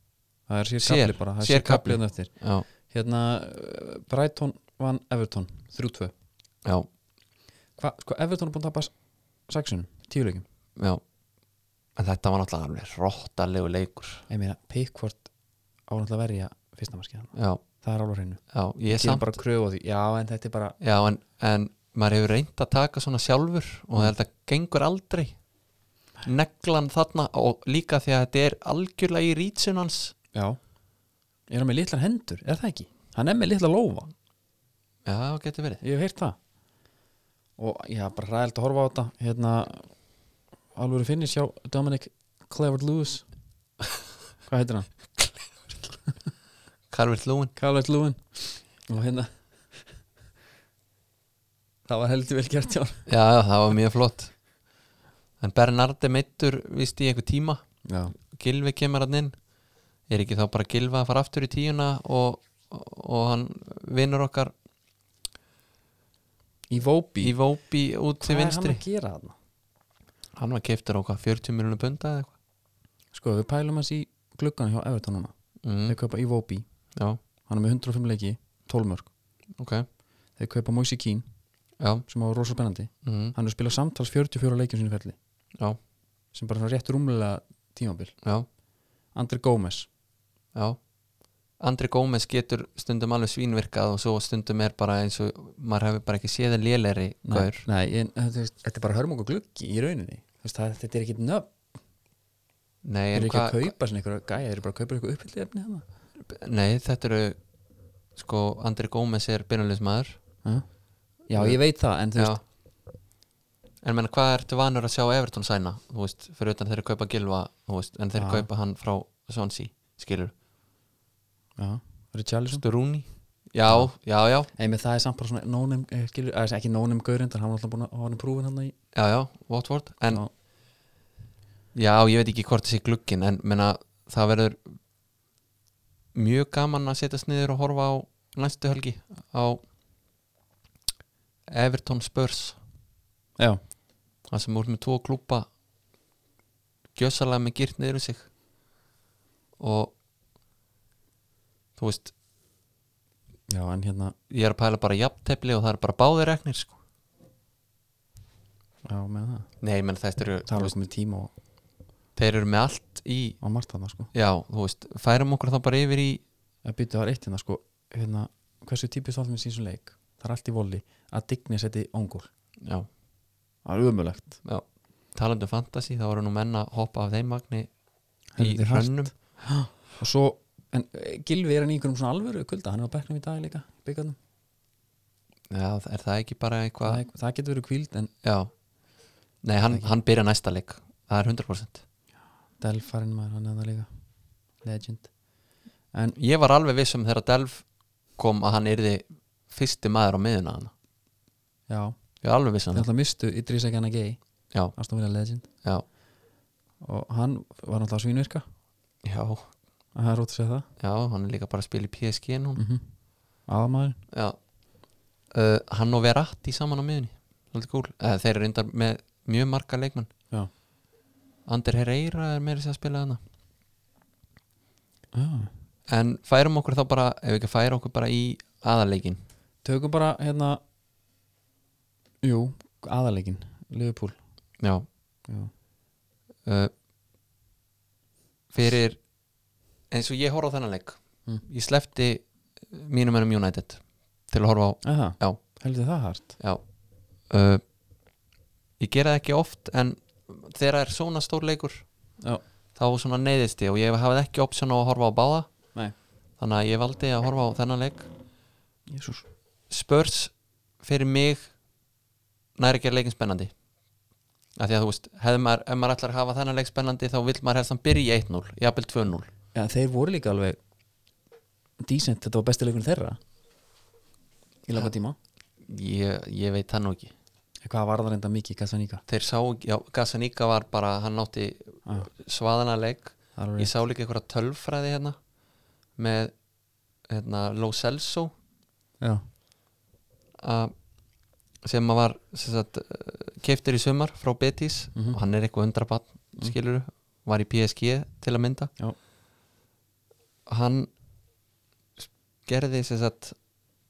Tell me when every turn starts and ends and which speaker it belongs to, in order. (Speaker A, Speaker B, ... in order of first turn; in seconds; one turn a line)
Speaker A: 0.5-2.3
Speaker B: 0.8-2.6
Speaker A: 2.9-6.1
Speaker A: 7.8-8.9
Speaker A: 9.5-10.4
Speaker B: 10.8-11.0
Speaker B: 12.0-14.2
Speaker A: 14.3-15.3
Speaker A: 15.9-20.8
Speaker B: 17.3-17.6
Speaker B: 18.5-19.3
Speaker B: 20.8-25.4
Speaker B: 26.2-30.1
Speaker A: 30.3-30.6
Speaker A: 31.5-34.1
Speaker B: 35.1-35.8
Speaker A: 35.8-36.4
Speaker A: 37.6-39.9
Speaker A: 40.8-43.2
Speaker A: 44.5-44.9
Speaker B: 46.9-47.5
Speaker A: 47.6-49.8
Speaker A: 51.9-53.0
Speaker B: 53.1-54.3
Speaker B: 55.4-57.6
Speaker A: 57.9-58.1
Speaker B: 58.3-59.4
Speaker B: 60.1-64.5
Speaker A: 66.7-67.4
Speaker B: 67.2-68.8
Speaker A: 68.2-69.3
Speaker B: 70.4-72.3
Speaker A: 73.1-75.3
Speaker B: 75.6-76.0
Speaker A: 75.9-76.7
Speaker A: 77.5-79.1
Speaker B: 79.6-79.9
Speaker A: 80.4-81.2
Speaker B: 81.8-82.0
Speaker A: 82.1-85.2
Speaker B: 83.0-83.3
Speaker A: 86.3-88.1
Speaker A: 89.2-89.9
Speaker B: 91.6-97.7
Speaker A: 97.3-101.6
Speaker B: 102.8-103.7
Speaker A: 103.1-105.8
Speaker B: 106.3-107.4
Speaker B: 108.2-110.2
Speaker A: 111.3-112.4
Speaker B: 113.8-120.3
Speaker A: 118.2-118.5
Speaker A: 121.6-122.6
Speaker B: 122.5-124.5
Speaker A: 124.6-128.7
Speaker B: 128.9-130.2
Speaker B: 131.8-134.8
Speaker B: 136.2-139.6
Speaker B: 141.5-142.6
Speaker B: 144.3-145.5
Speaker B: 147.0-148.3
Speaker B: 149.6-149.9
Speaker B: 151.8-152.1
Speaker A: 153.5-154.2
Speaker B: 154.3-156.8
Speaker A: 158.8-159.5
Speaker B: 159.6-160.7
Speaker A: 160.5-161.3
Speaker B: 162.2-163.4
Speaker A: 163.4-164.1
Speaker B: 164.1-166.2
Speaker A: 166.7-172.3
Speaker A: 173.7-174.4
Speaker B: 174.4-177.7
Speaker A: 178.3-184.2
Speaker B: 178.4-179.1
Speaker B: 185.5-187.0
Speaker A: 186.8-188.1
Speaker B: 188.2-188.5
Speaker B: 189.4-191.8
Speaker A: 192.6-193.9
Speaker A: 194.6-195.1
Speaker B: 196.2-197.7
Speaker B: 198.2-200.7
Speaker A: 201.7-201.9
Speaker B: 202.2-202.9
Speaker A: 202.7-204.2
Speaker A: 204.8-205.5
Speaker A: 206.8-208.4
Speaker B: 209.1-209.5
Speaker A: 209.9-210.7
Speaker B: 210.8-212.6
Speaker A: 212.6-212.8
Speaker A: 213.5-214.0
Speaker B: 214.1-214.4
Speaker B: 215.3-220.1
Speaker B: 221.5-223.2
Speaker A: 225.1-225.5
Speaker B: 225.9-229.2
Speaker A: 229.6-230.6
Speaker A: 232.2-234.2
Speaker B: 234.6-234.9
Speaker B: 236.5-236.7
Speaker B: 238.5-239.0
Speaker B: 239.9-245.4
Speaker A: 244.8-246.4
Speaker B: 247.3-247.6
Speaker B: 248.8-251.9
Speaker B: 252.8-255.5
Speaker B: 256.4-258.1
Speaker A: 258.9-259.3
Speaker B: 259.7-261.5
Speaker B: 262.6-263.5
Speaker B: 264.6-269.3
Speaker A: 269.5-270.6
Speaker A: 271.8-273.2
Speaker A: 274.7-275.2
Speaker B: 275.6-277.1
Speaker A: 277.6-279.0
Speaker B: 279.1-285.2
Speaker A: 283.4-283.7
Speaker B: 286.0-286.3
Speaker B: 287.1-288.3
Speaker B: 290.4-290.7
Speaker B: 291.6-298.7
Speaker B: 300.5-300.9
Speaker B: 302.0-303.4